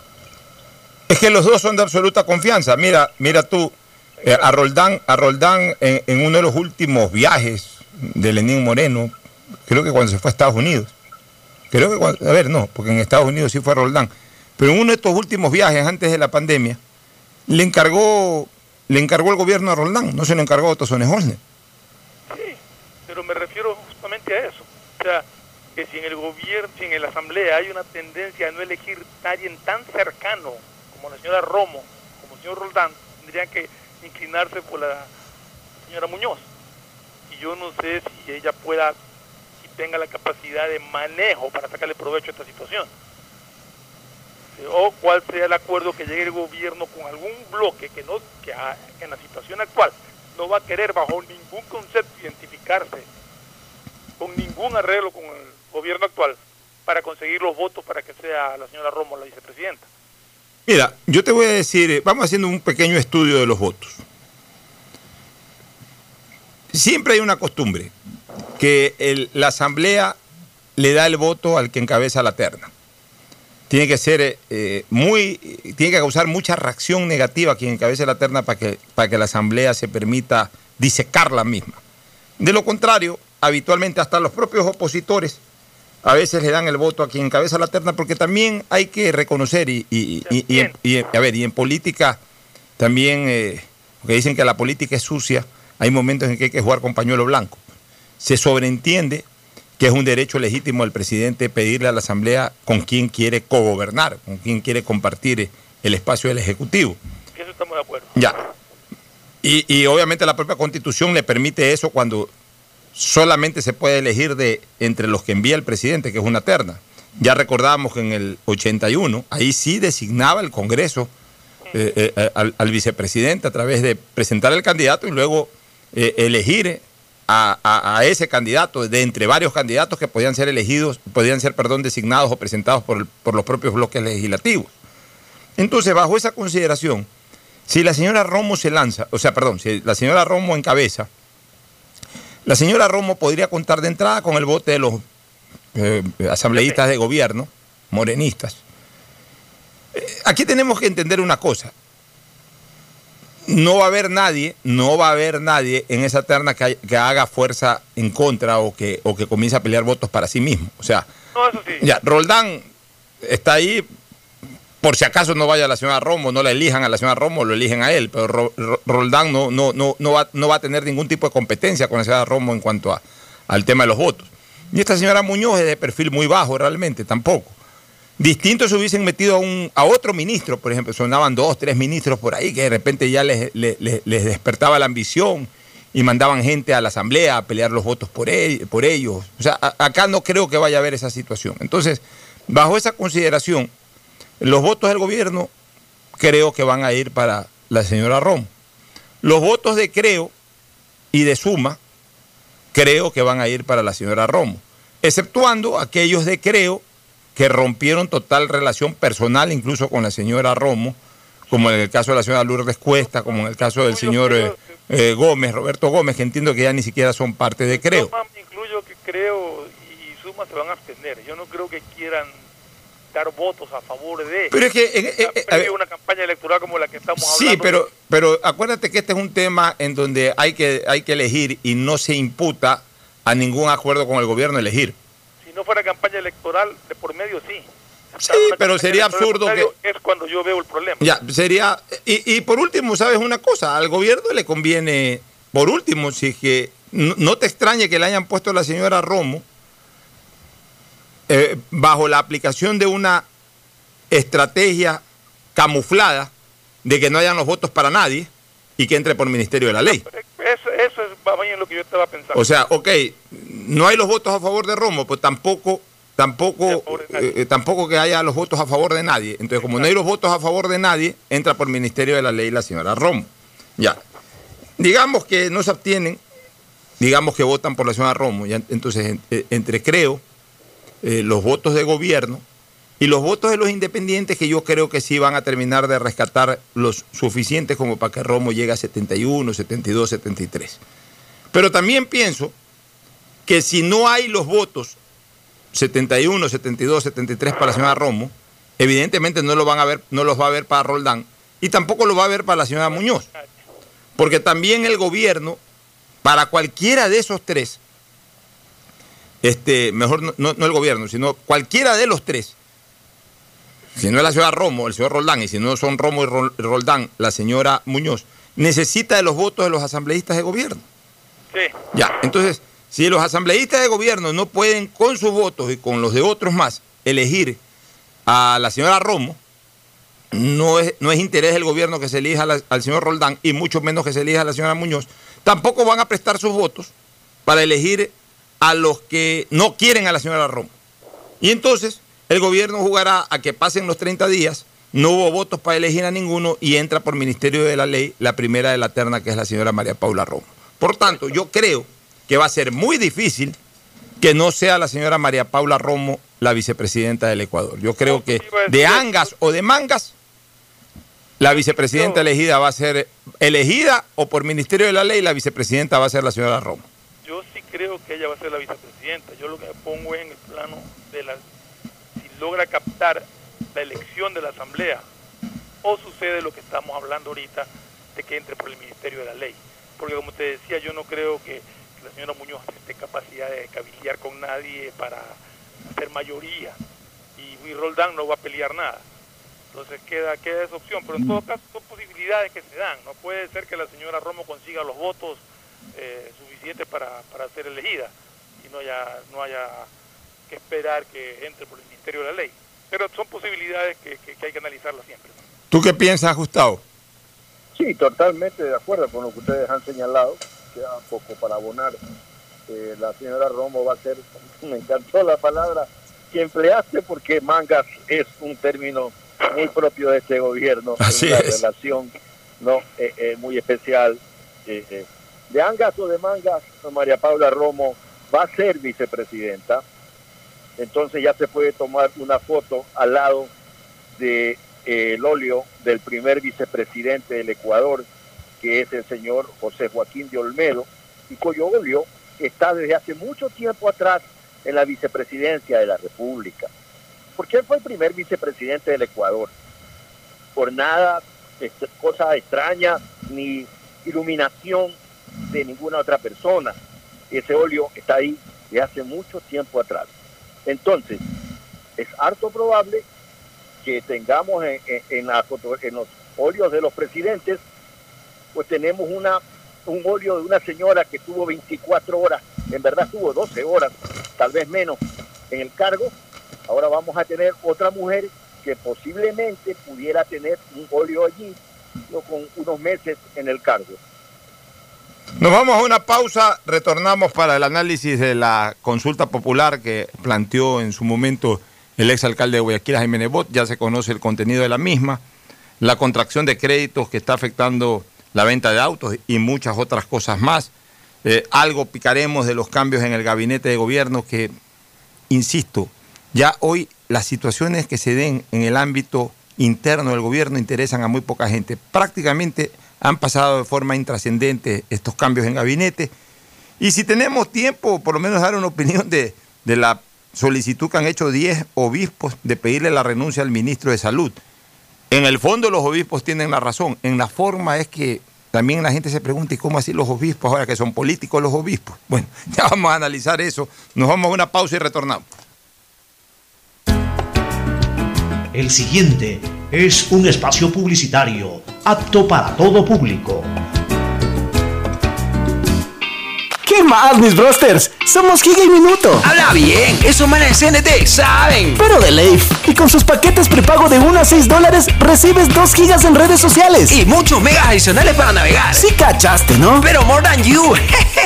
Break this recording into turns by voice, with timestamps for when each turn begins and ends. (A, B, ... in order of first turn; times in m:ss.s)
0:01.1-0:09.1 A
0:04.2-0:04.5 B
0:09.7-0:10.9 A
0:11.7-0:16.8 A
0:17.5-0:21.4 A
0:22.3-0:25.2 B
0:25.8-0:35.1 B
0:35.9-0:36.5 B
0:37.3-0:39.0 B
0:39.6-0:42.9 B
0:44.6-0:53.1 B
0:54.2-0:59.9 B
1:00.7-1:04.0 A
1:06.7-1:07.9 A
1:08.6-1:10.2 A
1:10.8-1:12.7 A
1:13.7-1:21.8 A
1:22.4-1:25.4 A
1:26.0-1:32.2 A
1:30.3-1:30.7 B
1:32.8-1:37.6 A
1:38.2-1:39.2 A
1:39.8-1:47.0 A
1:47.4-1:48.2 B
1:49.4-1:52.3 A
1:53.0-2:01.1 A
2:01.7-2:14.7 A
2:15.6-2:17.1 A
2:17.7-2:21.1 A
2:22.4-2:25.0 A
2:25.7-2:28.6 A
2:29.9-2:31.7 A
2:33.5-2:41.1 A
2:41.4-2:41.9 B
2:41.8-2:42.6 A
2:43.2-2:43.9 A
2:44.8-2:57.6 A
2:58.2-3:13.7 A
3:14.4-3:15.5 A
3:16.2-3:18.5 A
3:19.2-3:20.3 A
3:21.1-3:21.8 A
3:22.7-3:26.8 A
3:27.4-3:31.0 A
3:31.5-3:38.1 A
3:33.1-3:34.6 B
3:37.7-3:42.4 B
3:43.1-3:44.6 B
3:44.5-3:45.7 A
3:45.2-3:47.8 B
3:47.2-3:55.0 A
3:55.4-4:01.0 B
3:58.2-3:59.7 A
4:01.0-4:09.4 A
4:11.3-4:13.3 A
4:14.1-4:15.0 A
4:15.6-4:16.3 A
4:16.8-4:20.0 A
4:19.9-4:22.5 B
4:22.3-4:34.0 A
4:26.7-4:27.4 B
4:29.6-4:29.9 B
4:34.8-4:36.2 A
4:37.0-4:40.2 A
4:41.0-4:42.4 A
4:43.0-4:50.8 A
4:51.5-4:52.5 A
4:53.5-4:55.0 A
4:55.7-5:03.3 A
5:03.0-5:03.5 B
5:04.2-5:05.6 A
5:06.2-5:07.8 A
5:09.4-5:12.6 A
5:14.0-5:20.8 A
5:21.5-5:21.8 B
5:21.9-5:27.6 A
5:28.3-5:29.4 A
5:30.3-5:36.9 A
5:37.5-5:40.7 A
5:41.4-5:53.6 A
5:54.2-6:00.2 A
5:58.0-5:59.3 B
6:01.4-6:06.9 A
6:01.5-6:02.2 B
6:07.2-6:11.4 B
6:12.2-6:15.0 B
6:15.8-6:25.4 B
6:25.9-6:26.8 B
6:27.4-6:29.0 B
6:29.7-6:35.4 B
6:35.9-6:39.9 B
6:40.5-6:45.4 B
6:45.7-6:46.8 A
6:47.8-6:52.0 C
6:52.7-7:09.8 C
7:01.0-7:01.6 A
7:10.8-7:13.5 C
7:14.2-7:18.0 C
7:18.6-7:26.7 C
7:27.4-7:29.5 C
7:30.6-7:35.0 C
7:35.5-7:36.8 C
7:37.3-7:40.1 C
7:40.7-7:41.2 C
7:42.0-7:43.0 C
7:43.8-7:47.6 C
7:48.5-7:55.0 C
7:55.5-7:56.1 C
7:56.7-8:01.6 C
8:02.1-8:04.0 C
8:05.4-8:15.2 A
8:15.8-8:20.7 A
8:21.2-8:24.5 A
8:25.3-8:36.1 A
8:36.8-8:44.4 A
8:45.1-8:55.3 A
8:58.5-9:03.5 D
9:06.6-9:09.3 E
9:09.2-9:11.8 F
9:11.8-9:17.0 E
9:16.9-9:18.9 F
9:18.7-9:19.9 E
9:19.8-9:21.0 F